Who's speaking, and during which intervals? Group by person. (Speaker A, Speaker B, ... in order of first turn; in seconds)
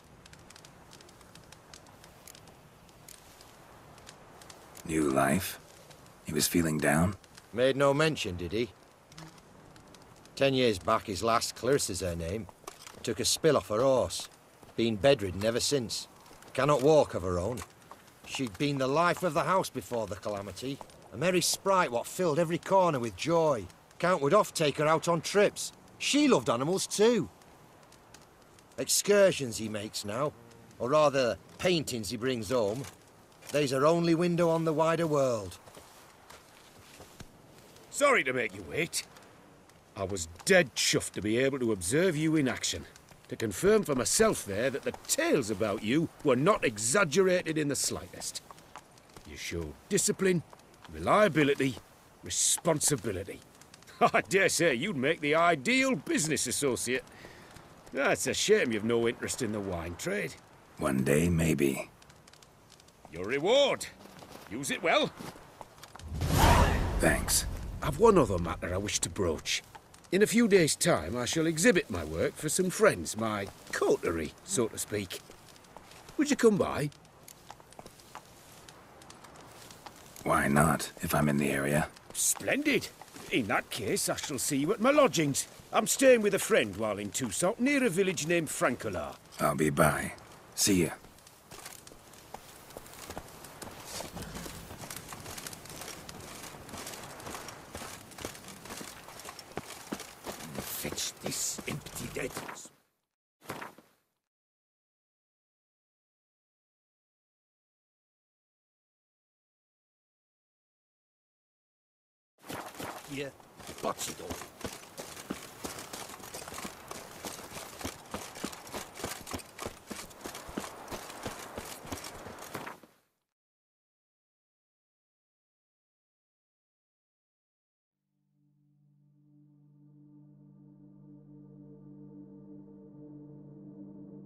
Speaker A: 4.8-5.6, 6.3-7.2, 60.8-61.9, 67.0-67.5, 80.2-81.9, 89.4-91.0
Speaker B: 7.5-8.7, 10.4-12.5, 13.0-17.6, 18.3-27.3, 28.8-32.9, 33.5-35.6
Speaker C: 37.9-39.0, 40.0-48.4, 49.3-53.4, 54.0-57.0, 57.9-60.4, 63.1-63.9, 64.5-65.1, 67.8-75.2, 76.2-76.9, 82.1-89.2, 100.6-102.7, 113.8-114.4